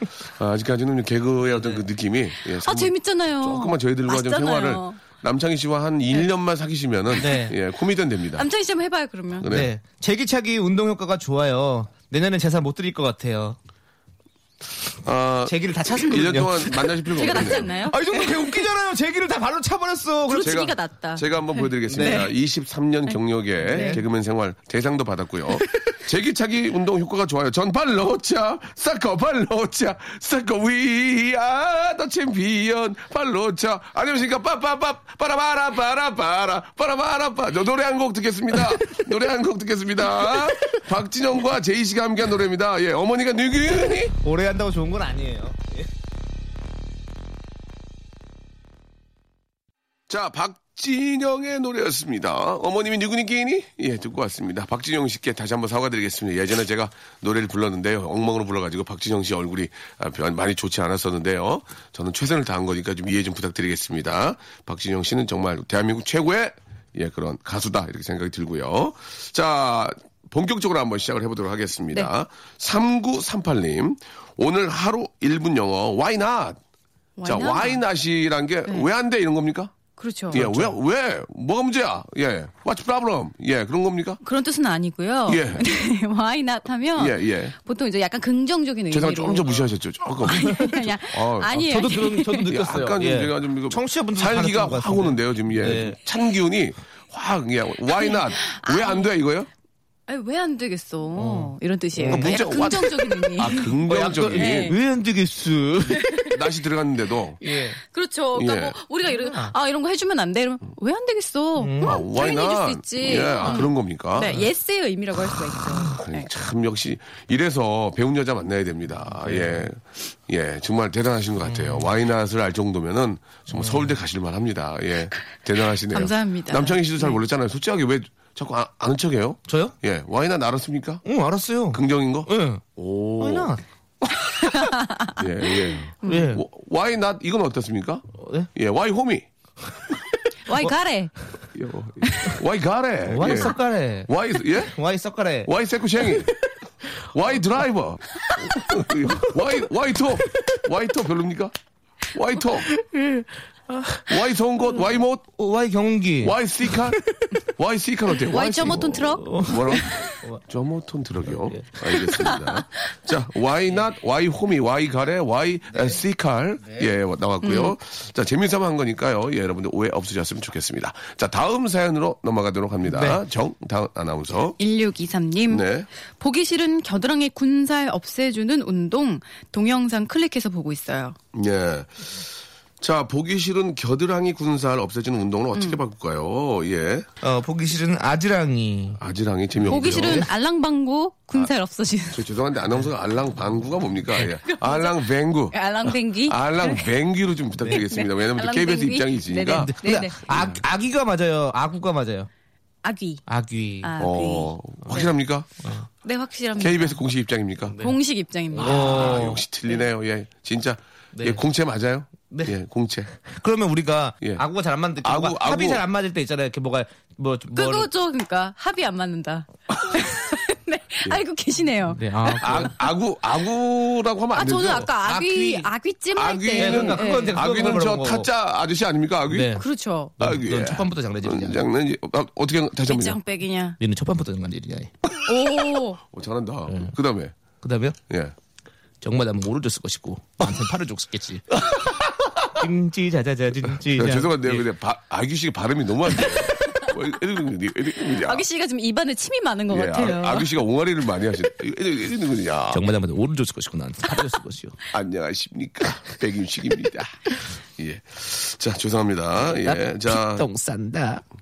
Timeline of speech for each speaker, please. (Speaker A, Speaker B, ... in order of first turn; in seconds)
Speaker A: 0.3-8.4, 9.4-9.7, 15.0-17.7, 20.4-44.1, 50.1-76.6, 77.2-79.7, 80.3-84.2, 85.3-85.7, 87.0-87.5, 88.9-91.6, 92.5-99.5, 102.1-104.7, 106.3-107.4, 108.3-108.8, 111.8-114.5, 115.9-131.0, 131.7-133.5, 135.2-139.3, 141.5-144.7, 145.4-146.3, 147.1-151.5, 152.1-152.7, 154.1-155.2, 156.2-174.6, 175.5-175.9, 181.3-182.2, 182.8-187.1, 189.0-190.3, 192.1-199.7, 200.3-200.6, 204.0-205.5, 206.6-207.8, 208.6-213.1, 215.0-215.8, 222.4-224.9, 226.1-229.6, 230.2-233.2, 236.1-237.3, 238.1-238.3, 243.8-248.4, 249.7-252.8, 254.9-260.5
Speaker B: 1.5-1.8, 7.2-7.5, 9.5-13.6, 15.5-20.6, 21.9-22.2, 23.6-24.0, 44.1-45.9, 80.3-80.7, 91.5-96.0, 101.2-102.4, 103.8-106.2, 107.4-107.8, 109.1-109.5, 111.6-112.0, 119.1-119.7, 121.5-121.9, 123.5-123.9, 129.5-129.7, 131.0-132.6, 133.2-133.6, 136.0-136.4, 138.2-138.5, 143.1-144.1, 144.6-145.5, 152.7-154.1, 155.3-157.3, 159.2-160.4, 161.4-162.3, 172.9-173.2, 187.2-189.0, 189.6-190.3, 199.6-202.3, 203.3-203.9, 208.5-209.4, 211.1-211.4, 213.2-217.9, 221.9-222.7, 225.0-225.7, 226.6-228.3, 229.3-229.7, 230.2-231.6, 233.8-234.9, 236.7-236.9, 237.6-237.9, 239.0-244.7, 252.7-254.8, 259.5-261.2
Speaker C: 2.6-5.0, 8.3-9.5, 17.1-18.6, 20.3-22.3, 23.7-24.0, 77.2-77.8, 80.0-80.4, 84.2-89.7, 90.2-92.5, 97.9-99.1, 100.1-103.8, 104.3-104.8, 106.0-106.4, 107.8-116.3, 125.8-127.2, 134.4-135.2, 136.0-136.3, 140.4-141.1, 158.3-160.0, 167.4-167.7, 174.6-175.6, 176.2-181.2, 185.5-185.8, 189.7-192.3, 194.4-196.9, 197.7-200.2, 202.8-203.2, 203.8-205.1, 206.0-207.0, 207.8-209.3, 217.5-222.6, 224.3-227.4, 229.6-230.1, 232.8-233.8, 235.2-236.0, 246.3-246.9, 248.1-250.5